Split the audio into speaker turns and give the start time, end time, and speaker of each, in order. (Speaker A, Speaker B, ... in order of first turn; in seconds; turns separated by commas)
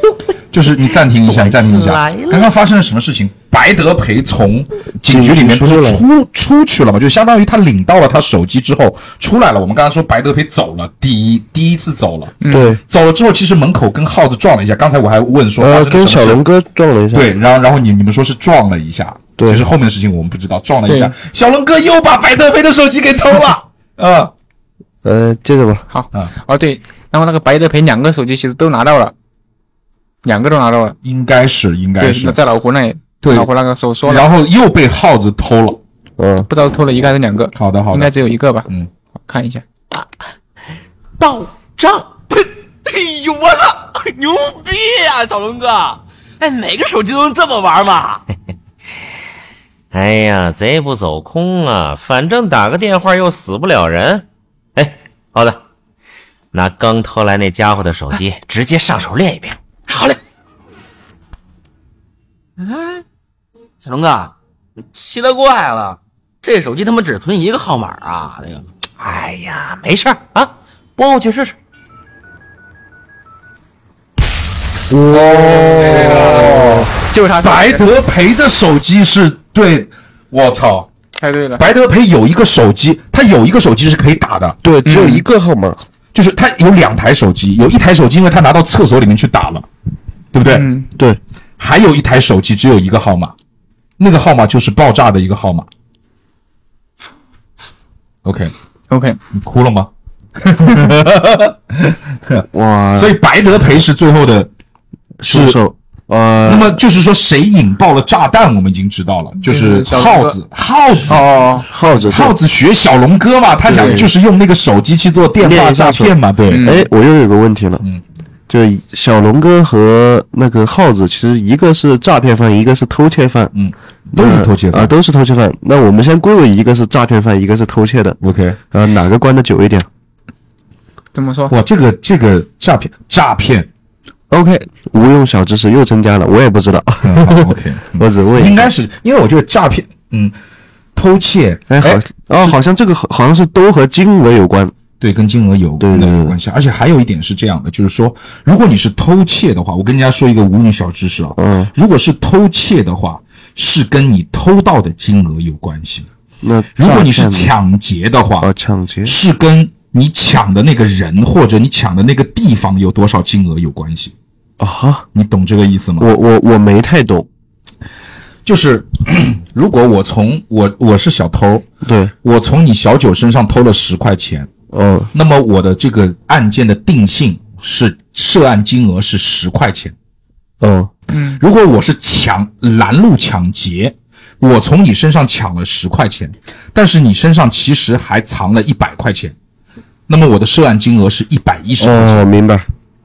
Speaker A: 0.5-12.3, Speaker B: 1.2-2.5, Speaker C: 5.0-6.0, Speaker D: 12.4-12.7, Speaker C: 12.5-12.8, Speaker A: 12.9-16.4, Speaker C: 15.6-17.3, Speaker A: 17.1-24.3, Speaker C: 19.4-19.6, Speaker D: 20.9-21.1, Speaker C: 25.0-25.9, Speaker D: 25.9-29.1, Speaker D: 30.2-30.9, Speaker A: 31.0-32.4, Speaker D: 32.0-34.3, Speaker A: 33.2-33.5, Speaker A: 34.0-35.8, Speaker C: 36.2-36.5, Speaker D: 36.5-38.7, Speaker A: 37.5-38.1, Speaker D: 39.2-39.6, Speaker B: 41.2-42.1, Speaker E: 42.3-48.2, Speaker B: 49.9-54.2, Speaker B: 54.8-55.6, Speaker B: 56.5-59.6, Speaker E: 59.9-60.2, Speaker E: 62.6-63.0, Speaker E: 63.8-64.3, Speaker E: 64.9-68.7, Speaker B: 69.0-71.5, Speaker C: 74.9-76.8, Speaker D: 75.1-77.9, Speaker A: 76.0-76.6, Speaker A: 77.4-80.9, Speaker D: 81.2-81.6, Speaker A: 81.6-85.0, Speaker C: 84.6-85.8, Speaker D: 84.8-85.2, Speaker A: 86.1-89.7, Speaker A: 90.3-90.7, Speaker D: 90.4-90.9, Speaker A: 91.6-93.3, Speaker A: 94.0-95.7, Speaker A: 98.2-98.5, Speaker D: 98.9-99.2, Speaker A: 99.3-99.9, Speaker A: 100.4-102.4, Speaker C: 102.5-103.2, Speaker A: 103.0-104.5, Speaker C: 105.2-106.8, Speaker A: 105.2-105.6, Speaker A: 106.5-111.3, Speaker D: 109.4-110.4, Speaker D: 111.1-111.7, Speaker C: 111.7-112.3, Speaker A: 111.9-116.7, Speaker C: 113.7-114.1, Speaker D: 113.7-114.0, Speaker C: 115.4-117.8, Speaker D: 116.5-116.8, Speaker C: 118.5-123.5, Speaker A: 123.5-124.9, Speaker C: 124.1-128.2, Speaker A: 128.2-128.6, Speaker C: 128.7-129.9, Speaker D: 131.1-131.5, Speaker A: 131.5-133.7, Speaker C: 134.3-138.7, Speaker A: 137.0-140.3, Speaker A: 140.9-142.6, Speaker C: 141.7-144.7, Speaker A: 145.0-156.1, Speaker C: 145.8-146.3, Speaker C: 151.4-151.7, Speaker C: 156.4-157.5, Speaker A: 156.8-158.5, Speaker C: 158.4-159.2, Speaker A: 159.0-164.1, Speaker C: 164.6-165.1, Speaker A: 165.1-166.1, Speaker C: 166.0-167.3, Speaker A: 168.4-171.7, Speaker C: 171.8-172.1, Speaker A: 172.2-174.5, Speaker C: 174.7-175.1, Speaker A: 175.1-179.9, Speaker C: 180.6-180.9, Speaker D: 181.1-181.4, Speaker A: 181.4-189.3, Speaker A: 190.1-192.2, Speaker C: 191.8-192.7